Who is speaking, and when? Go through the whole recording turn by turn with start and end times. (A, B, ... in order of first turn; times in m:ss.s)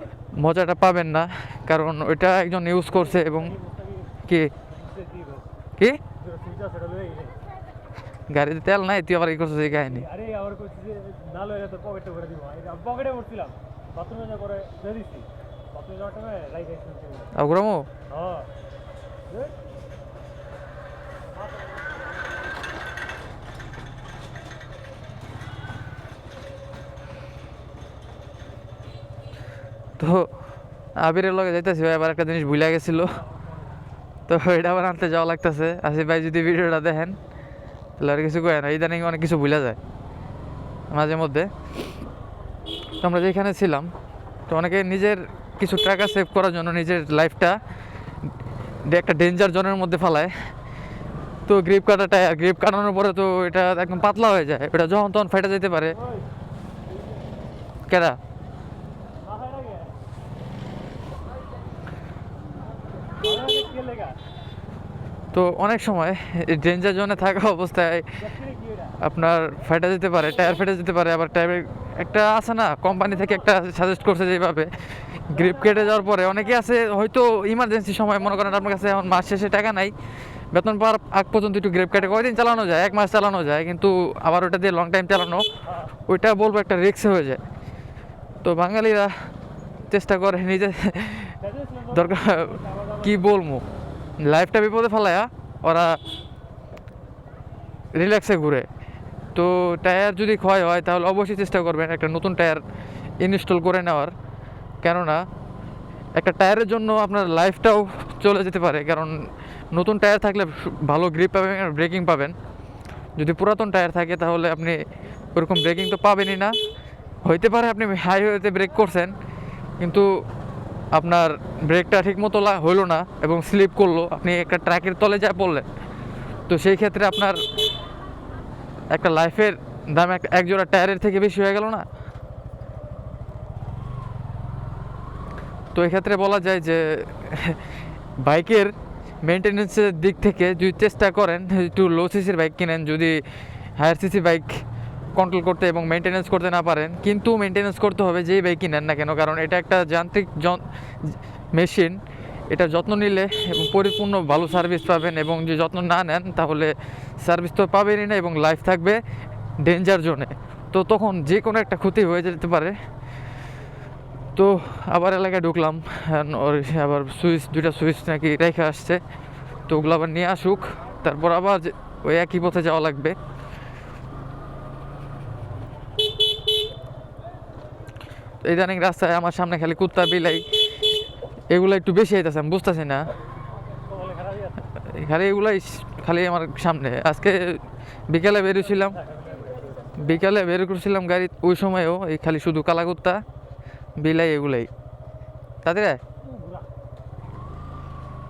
0:00.4-0:03.6 A
0:04.2-0:04.5 A
0:04.8-0:05.4 B
0:06.2-0:07.4 B
0:08.3-0:10.1 A
0:10.1-0:17.3 B
0:17.3-0:17.9 A
0:18.1-0:18.5 B
0:30.0-0:30.3 A
0:31.0-0:33.2 A
0:34.3-0:37.2 A
0:38.0-0:39.8 A
0:40.9-0:41.5 A
0:43.0-0:43.9 A
0:44.5-0:47.6 A
0:48.9-0:50.3 A
0:51.5-0:56.0 A
0:57.9-0:58.2 A
0:59.3-0:59.9 B
1:03.2-1:04.2 B
1:05.3-1:08.3 A
1:08.3-1:08.6 B
1:09.0-1:19.9 A
1:20.5-1:25.5 A
1:26.0-1:27.4 A
1:28.4-1:29.1 A
1:29.9-1:33.6 A
1:31.6-1:31.9 B
1:34.2-1:36.0 A
1:37.9-1:38.7 A
1:39.3-1:42.6 A
1:43.2-1:44.1 A
1:44.8-1:45.2 A
1:46.2-1:49.2 A
1:49.7-1:52.3 A
1:53.2-1:54.8 A
1:55.3-1:56.5 A
1:57.2-1:59.1 A
1:59.8-2:00.1 A
2:00.9-2:05.6 A
2:06.5-2:07.4 A
2:08.9-2:11.8 A
2:15.7-2:17.6 A
2:18.2-2:18.7 A
2:19.2-2:23.2 A
2:23.8-2:24.6 A
2:25.1-2:32.0 A
2:32.5-2:39.0 A
2:39.6-2:42.8 A
2:44.3-2:49.0 A
2:49.7-2:53.2 A
2:58.4-3:00.5 A
3:01.5-3:03.1 A
3:03.9-3:04.5 B
3:04.8-3:09.0 A
3:09.0-3:09.9 B
3:10.0-3:13.2 A
3:14.0-3:14.7 A
3:15.6-3:16.0 A
3:16.3-3:16.6 B